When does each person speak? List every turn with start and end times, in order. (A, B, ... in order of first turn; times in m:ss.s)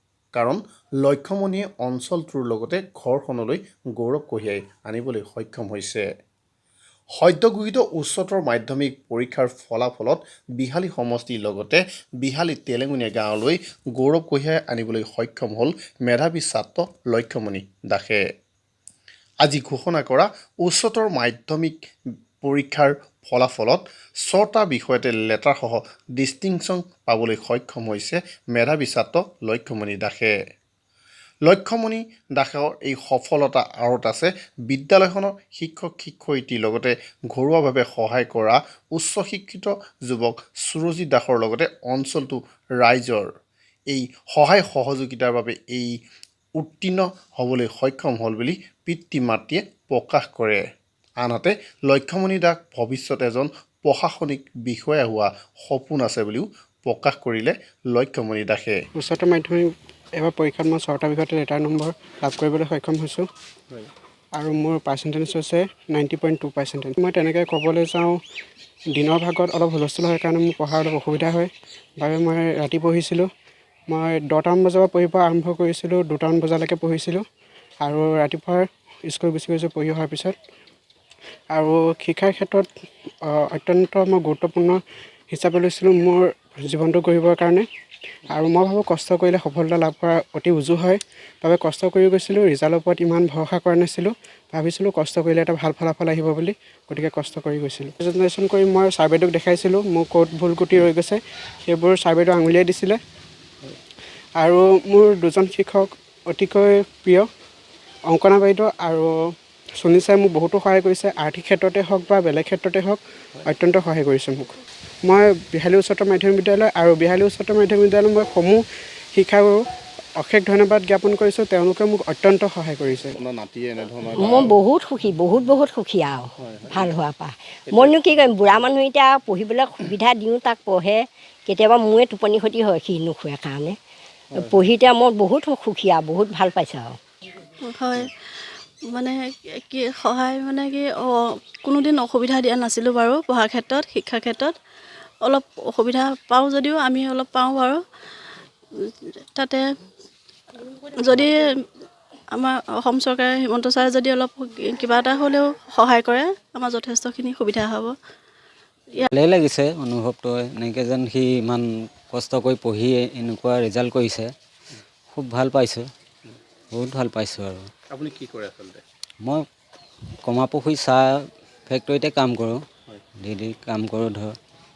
0:00.3-0:06.0 A
0:07.2-0:18.2 A
0:19.4-0:21.8 A
0:22.4-0:30.3 A
0:31.5-0:43.3 A
0:43.9-0:45.9 A
0:46.6-0:50.6 A
0:51.2-0:58.8 A
0:59.0-1:03.3 B
1:04.4-1:08.2 B
1:08.9-1:13.3 B
1:13.9-1:17.2 B
1:17.8-1:20.4 B
1:21.5-1:22.7 B
1:23.2-1:27.7 B
1:28.3-1:43.0 B
1:44.4-1:47.3 B
1:48.1-1:59.6 B
2:00.2-2:03.2 B
2:03.2-2:04.6 A
2:04.2-2:13.8 C
2:06.4-2:06.9 A
2:14.4-2:17.0 C
2:17.7-2:18.1 D
2:18.9-2:24.6 D
2:25.2-2:27.8 D
2:28.8-2:29.6 D
2:31.0-2:31.4 D
2:32.4-2:38.0 D
2:39.1-2:44.3 E
2:45.1-2:45.9 E
2:46.7-2:47.7 E
2:47.9-2:48.8 A
2:50.3-2:52.6 E
2:53.2-2:54.4 E